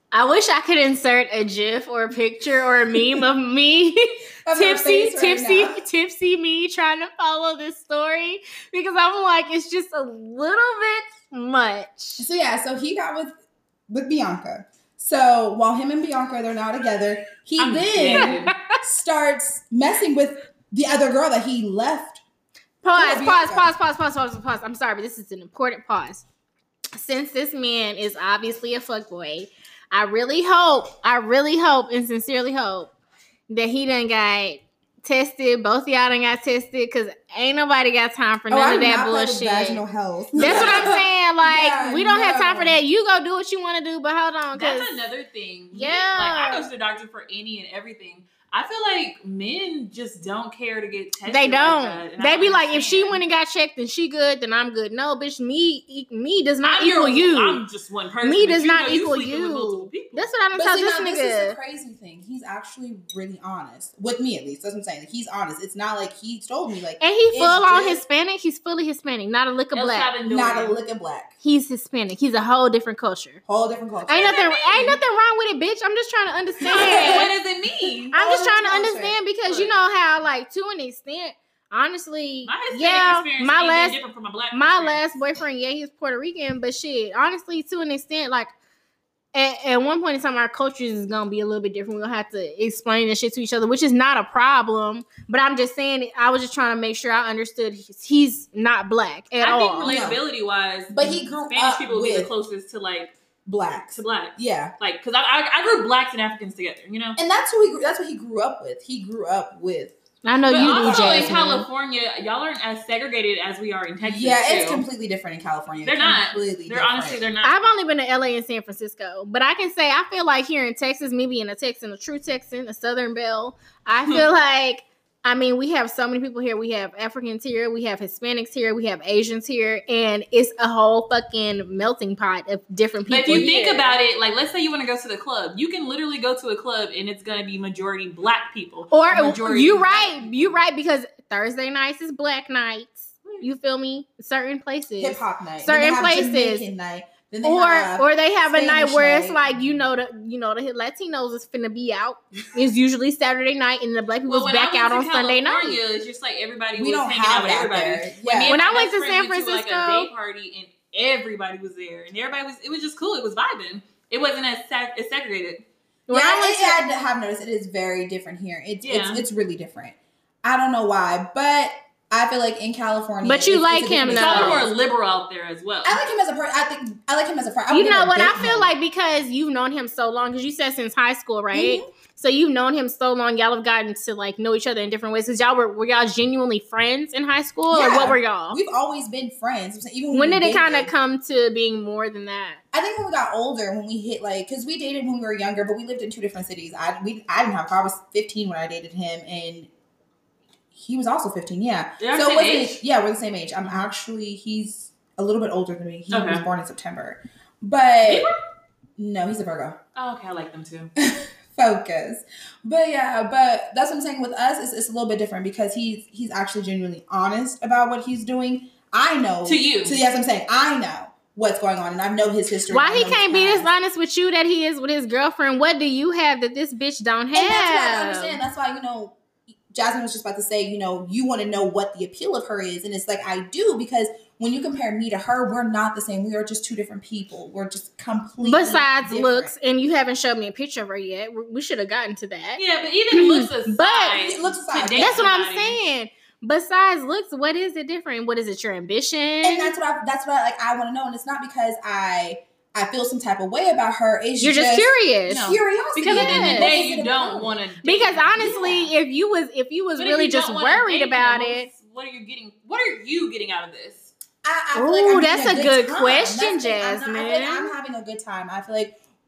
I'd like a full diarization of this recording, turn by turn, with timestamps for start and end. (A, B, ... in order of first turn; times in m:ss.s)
0:00.1-0:12.2 A
0:02.9-0:03.2 B
0:04.4-0:05.8 B
0:12.2-0:13.3 B
0:13.9-0:22.2 B
0:17.6-0:18.5 C
0:18.1-0:18.8 A
0:22.8-0:26.2 A
0:22.9-0:23.7 B
0:26.9-0:32.9 A
0:33.5-0:39.8 A
0:38.5-0:42.8 B
0:40.4-0:45.0 A
0:40.4-0:41.0 C
0:44.5-0:53.2 C
0:45.7-0:46.6 A
0:51.2-0:57.6 A
0:56.6-1:00.3 C
0:58.2-1:01.6 A
1:00.5-1:08.0 B
1:07.0-1:10.1 A
1:09.7-1:10.8 C
1:10.2-1:11.3 B
1:11.4-1:13.4 A
1:13.4-1:14.4 B
1:14.1-1:17.3 A
1:14.1-1:15.0 C
1:16.6-1:19.2 B
1:16.7-1:18.1 C
1:18.1-1:24.0 A
1:19.4-1:19.8 C
1:22.4-1:25.0 C
1:24.5-1:28.5 A
1:29.3-1:40.0 A
1:39.4-1:43.1 C
1:39.8-1:40.2 B
1:40.9-1:42.3 B
1:43.4-1:44.7 B
1:43.9-1:47.2 C
1:47.2-1:50.0 B
1:50.2-1:51.6 A
1:50.5-1:54.8 C
1:50.5-1:51.4 B
1:54.0-1:57.2 B
1:55.8-1:57.6 C
1:57.4-2:13.9 A
2:13.1-2:20.6 C
2:13.3-2:13.6 B
2:18.9-2:26.6 A
2:25.0-2:29.4 B
2:27.4-2:35.8 A
2:34.3-2:45.6 C
2:36.8-2:38.6 B
2:38.5-2:40.1 A
2:46.1-2:46.8 A
2:46.1-2:54.7 B
2:48.8-2:49.2 C
2:53.2-2:54.7 A
2:54.1-2:56.0 C
2:55.8-2:58.7 B
2:57.7-3:08.6 A
3:01.5-3:01.9 B
3:07.7-3:10.9 B
3:10.1-3:12.6 A
3:12.7-3:19.7 B
3:20.7-3:28.3 B
3:22.0-3:22.8 C
3:26.1-3:26.4 C
3:28.0-3:28.3 C
3:29.0-3:29.8 B
3:30.0-3:30.9 C
3:31.0-3:43.7 B
3:39.4-3:40.0 C
3:42.7-3:48.4 A
3:47.3-3:49.2 B
3:49.7-3:59.5 B
3:58.4-4:02.6 A
4:02.6-4:05.8 C
4:03.1-4:04.2 A
4:04.1-4:05.2 B
4:05.0-4:09.7 A
4:09.4-4:17.6 B
4:14.4-4:15.5 A
4:15.3-4:18.5 C
4:16.0-4:16.7 A
4:17.8-4:21.7 A
4:18.4-4:18.9 B
4:20.0-4:24.1 C
4:24.4-4:29.0 B
4:24.7-4:27.7 A